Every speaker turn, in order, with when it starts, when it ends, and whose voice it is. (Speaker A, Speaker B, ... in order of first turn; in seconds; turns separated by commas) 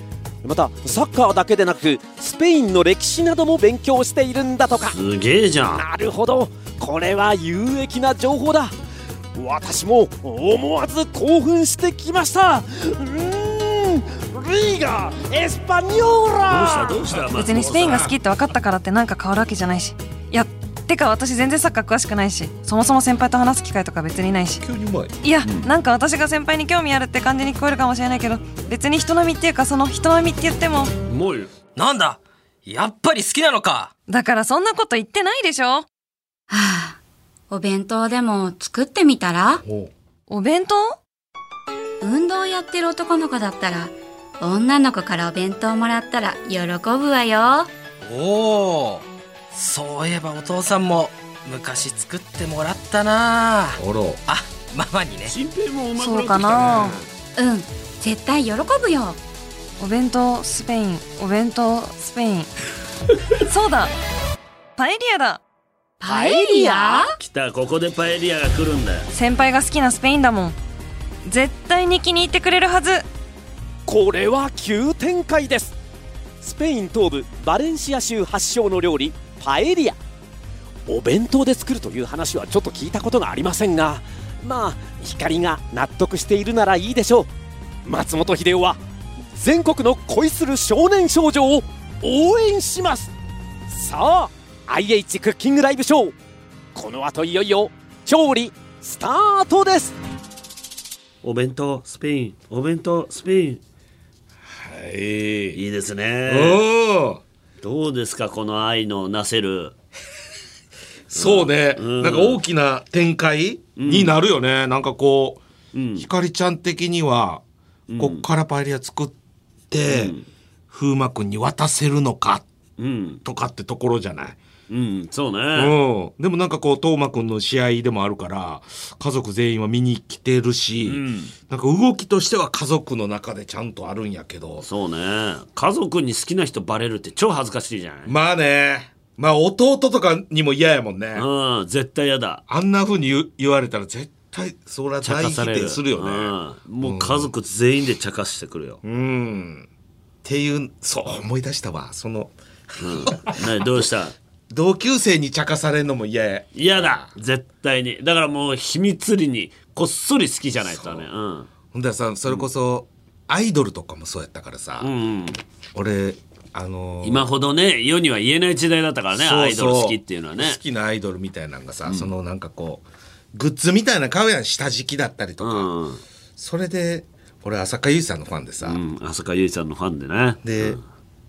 Speaker A: 0.4-5.0, Speaker B: 4.9-5.8, Speaker A: 5.7-8.7, Speaker A: 9.3-17.0, Speaker B: 16.5-18.1, Speaker C: 17.3-18.1, Speaker D: 17.3-24.6, Speaker C: 24.6-25.1, Speaker D: 25.2-30.9, Speaker B: 31.1-31.5, Speaker E: 31.8-33.9, Speaker D: 34.1-35.9, Speaker F: 36.5-37.0, Speaker F: 37.5-39.6, Speaker C: 39.6-39.9, Speaker D: 40.3-41.0, Speaker F: 42.0-47.7, Speaker E: 48.0-55.3, Speaker C: 53.8-54.2, Speaker B: 55.3-57.0, Speaker D: 56.0-57.0, Speaker F: 57.4-59.2, Speaker D: 59.8-62.5, Speaker D: 63.5-63.9, Speaker D: 64.8-65.4, Speaker F: 66.0-67.2, Speaker A: 66.1-67.0, Speaker B: 67.2-69.1, Speaker D: 69.1-70.6, Speaker D: 71.2-73.0, Speaker A: 73.8-75.8, Speaker A: 76.4-80.0, Speaker A: 80.9-87.3, Speaker A: 87.8-88.8, Speaker A: 89.3-93.1, Speaker A: 93.7-96.2, Speaker A: 96.7-100.0, Speaker B: 101.2-103.6, Speaker C: 104.5-105.6, Speaker B: 105.5-106.6, Speaker C: 106.3-107.2, Speaker B: 107.6-109.7, Speaker C: 111.1-115.4, Speaker B: 111.1-112.4, Speaker B: 113.8-114.1, Speaker B: 115.7-116.1, Speaker C: 116.0-117.4, Speaker B: 117.9-118.2, Speaker C: 118.0-119.1, Speaker C: 119.7-120.1, Speaker B: 119.9-120.3, Speaker C: 120.7-122.5, Speaker B: 122.8-123.2, Speaker C: 123.2-124.4, Speaker B: 124.7-125.7, Speaker C: 125.5-134.7, Speaker B: 130.8-131.3, Speaker B: 134.6-138.1, Speaker C: 138.1-141.3, Speaker B: 141.1-142.4, Speaker C: 142.5-147.3, Speaker B: 145.0-148.8, Speaker C: 148.8-149.7, Speaker C: 150.2-153.4, Speaker B: 152.8-154.1, Speaker C: 154.5-157.1, Speaker B: 156.6-161.5, Speaker C: 160.7-161.1, Speaker C: 161.7-164.9, Speaker B: 164.8-165.4, Speaker C: 165.7-167.3, Speaker B: 167.0-170.6, Speaker C: 169.1-175.7, Speaker B: 175.4-176.0, Speaker C: 176.4-178.8, Speaker B: 178.6-180.8, Speaker C: 180.4-180.8